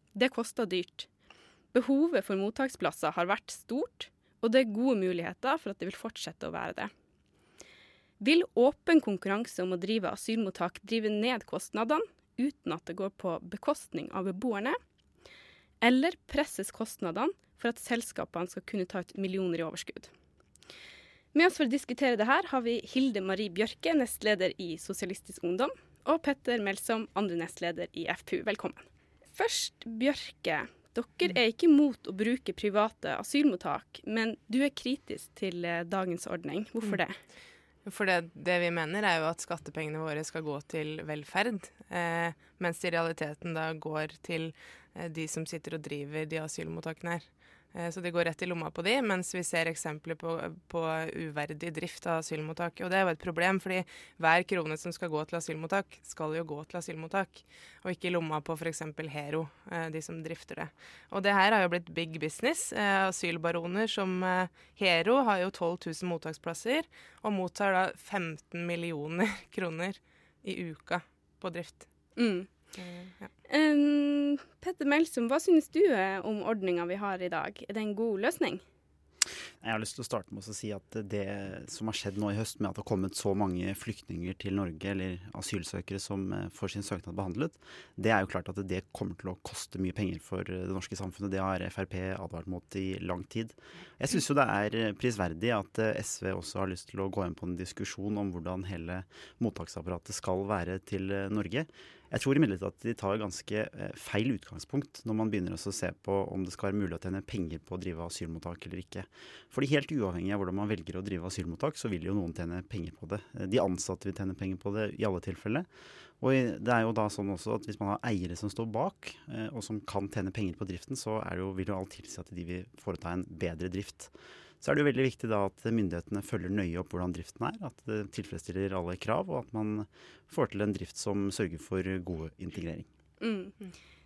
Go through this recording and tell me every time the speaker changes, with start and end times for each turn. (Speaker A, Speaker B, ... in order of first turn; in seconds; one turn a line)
Speaker A: 0.1-1.1
Speaker A: 1.7-6.9
Speaker A: 8.2-14.8
Speaker A: 15.8-20.1
Speaker A: 21.3-37.2
Speaker B: 37.9-71.9
Speaker A: 72.2-72.5
Speaker B: 72.8-73.3
Speaker A: 73.5-78.6
Speaker C: 79.6-115.7
Speaker C: 116.2-132.9
Speaker A: 133.2-133.6